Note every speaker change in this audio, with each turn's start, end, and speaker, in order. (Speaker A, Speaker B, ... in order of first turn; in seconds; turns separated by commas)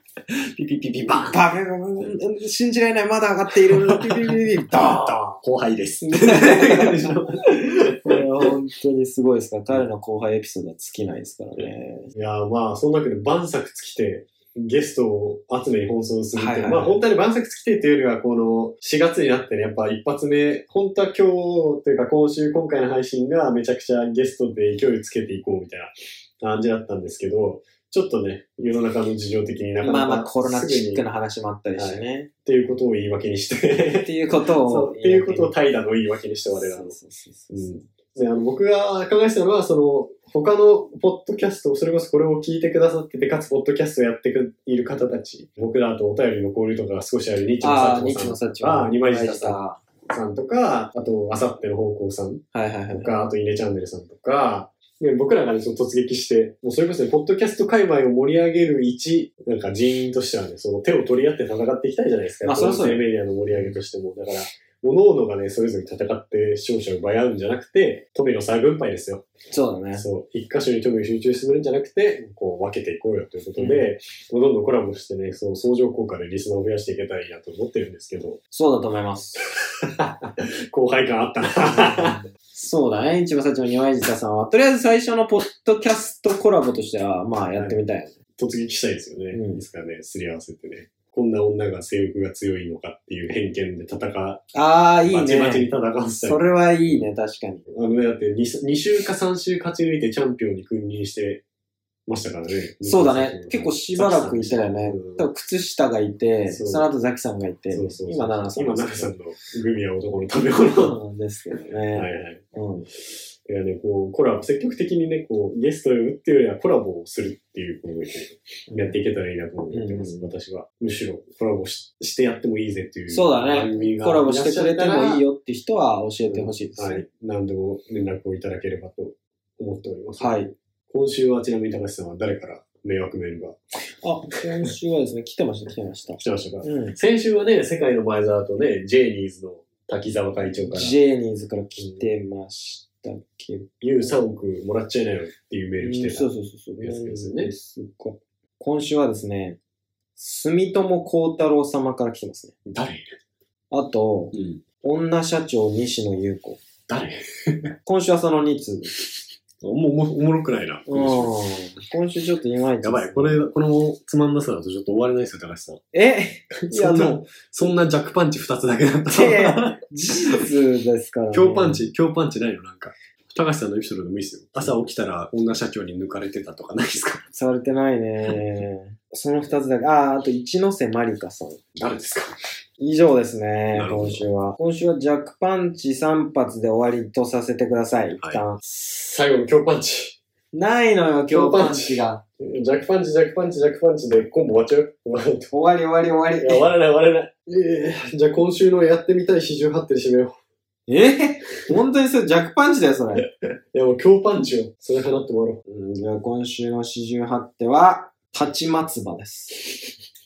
Speaker A: 0.5-1.4, Speaker B: 1.1-5.3, Speaker A: 3.8-4.1, Speaker A: 4.7-8.1, Speaker B: 6.1-7.1, Speaker B: 8.0-12.1, Speaker A: 12.1-31.0, Speaker B: 16.3-17.0, Speaker B: 29.8-32.3, Speaker A: 31.8-36.9, Speaker B: 34.0-35.5, Speaker B: 36.5-37.8, Speaker A: 37.5-69.2, Speaker B: 47.6-49.8, Speaker B: 52.5-53.1, Speaker B: 62.4-63.8, Speaker B: 69.5-70.0, Speaker A: 69.9-78.4, Speaker B: 73.6-73.9, Speaker B: 78.5-79.4, Speaker A: 79.8-82.2, Speaker B: 81.6-88.1, Speaker A: 88.4-94.5, Speaker B: 89.3-89.6, Speaker B: 94.5-95.7, Speaker A: 95.0-97.1, Speaker B: 96.2-97.7, Speaker A: 97.7-101.4, Speaker A: 102.1-105.3, Speaker B: 102.8-109.2, Speaker A: 106.5-106.8, Speaker A: 107.7-111.0, Speaker B: 110.7-112.9, Speaker A: 111.5-112.5, Speaker A: 113.4-125.2, Speaker B: 119.7-120.3, Speaker B: 123.1-127.0, Speaker A: 126.3-130.4, Speaker B: 130.2-130.5, Speaker A: 130.9-133.6, Speaker B: 134.0-136.9, Speaker A: 136.2-140.9, Speaker B: 140.7-144.1, Speaker A: 141.8-142.1, Speaker A: 143.8-146.3, Speaker B: 145.8-149.6, Speaker A: 146.8-147.5, Speaker B: 150.2-152.5, Speaker A: 152.7-153.1, Speaker B: 153.7-156.6, Speaker A: 154.3-154.6, Speaker A: 156.9-157.7, Speaker B: 157.8-159.0, Speaker A: 159.6-161.3, Speaker B: 160.9-163.4, Speaker A: 162.8-165.8, Speaker B: 165.9-167.2, Speaker A: 166.6-170.4, Speaker B: 169.1-171.8, Speaker A: 171.3-177.2, Speaker B: 177.3-181.7, Speaker A: 181.8-182.3, Speaker B: 182.8-188.6, Speaker A: 183.7-184.2, Speaker A: 188.2-190.2, Speaker B: 190.5-192.2, Speaker A: 191.3-195.5, Speaker B: 195.5-196.6, Speaker A: 196.4-200.3, Speaker B: 200.9-203.2, Speaker A: 203.7-205.6, Speaker B: 205.7-209.6